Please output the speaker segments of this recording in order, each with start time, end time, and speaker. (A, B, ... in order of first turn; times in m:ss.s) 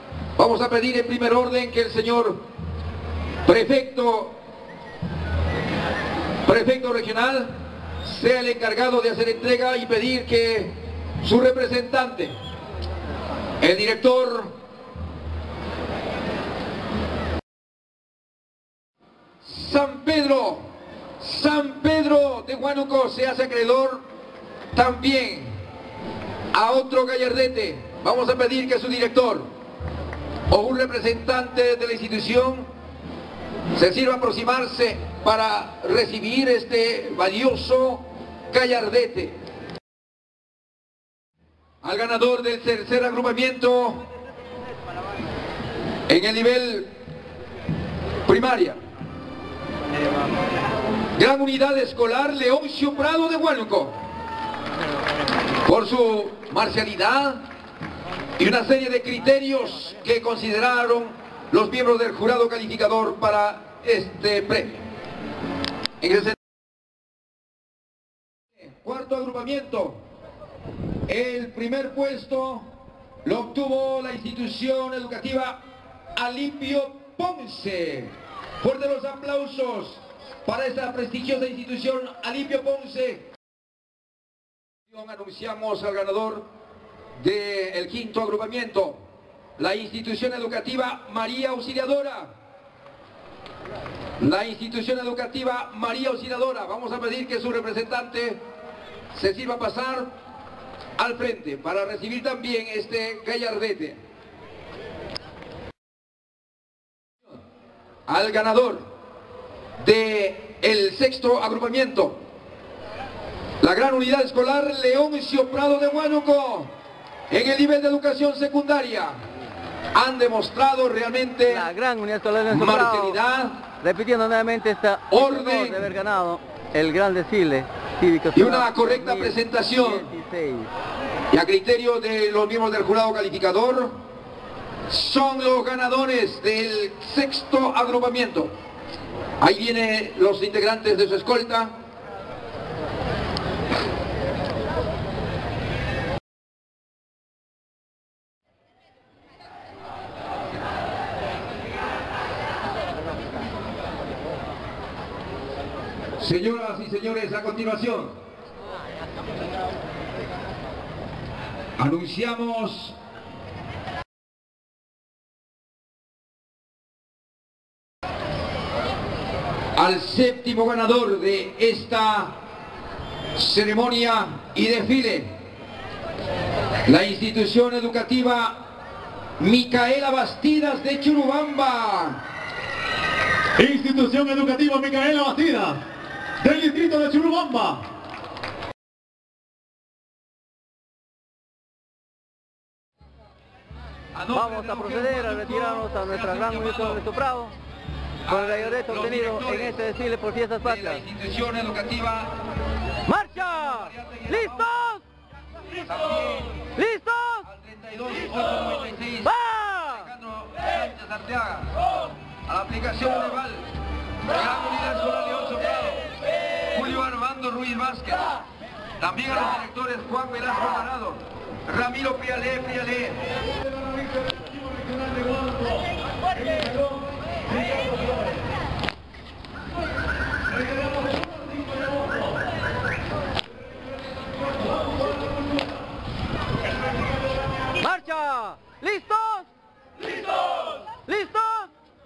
0:00.4-0:02.4 A
0:03.4-0:04.4 A
0:06.4-0:12.4 A
0:13.6-0:14.6 A
0:19.4-0:24.1 A
0:24.7-0:25.6 A
0:26.5-0:29.5 A
0:30.5-0:32.7 A
0:33.7-0:39.4 A
0:41.8-0:44.0 A
0:46.1-0:46.9 A
0:48.2-0:48.8 A
0:51.2-0:54.0 A
0:55.6-0:57.5 A
0:58.4-1:04.8 A
1:06.0-1:06.4 A
1:08.6-1:10.0 A
1:11.1-1:12.7 A
1:13.2-1:15.6 A
1:16.1-1:23.3 A
1:24.9-1:26.5 A
1:27.2-1:29.0 A
1:29.6-1:32.3 A
1:34.2-1:38.4 A
1:39.1-1:40.1 A
1:41.0-1:44.0 A
1:48.1-1:48.9 A
1:49.8-1:52.2 A
1:53.6-1:56.7 A
1:57.3-1:59.2 A
1:59.9-2:01.6 A
2:01.5-2:03.2 B
2:02.5-2:03.6 A
2:03.8-2:10.7 B
2:05.1-2:05.9 A
2:08.3-2:10.1 A
2:11.3-2:14.0 A
2:14.9-2:18.6 A
2:19.4-2:21.8 A
2:36.2-2:38.2 A
2:41.8-2:43.0 A
2:49.7-2:52.4 A
2:53.3-2:55.3 A
2:56.8-2:58.6 A
2:59.4-3:02.2 A
3:03.6-3:05.8 C
3:06.4-3:07.8 C
3:14.1-3:17.0 A
3:14.3-3:17.5 B
3:18.3-3:19.8 A
3:18.3-3:21.0 B
3:20.6-3:22.4 A
3:23.1-3:25.0 B
3:23.2-3:24.8 A
3:25.8-3:26.7 A
3:26.8-3:27.5 B
3:27.4-3:31.7 A
3:29.2-3:30.1 B
3:32.4-3:33.7 A
3:34.3-3:36.0 A
3:36.7-3:38.3 A
3:39.0-3:43.2 A
3:43.3-3:48.4 C
3:50.5-3:52.4 C
3:54.0-3:55.8 C
3:56.6-3:57.5 C
3:57.8-3:59.5 B
4:01.0-4:01.7 B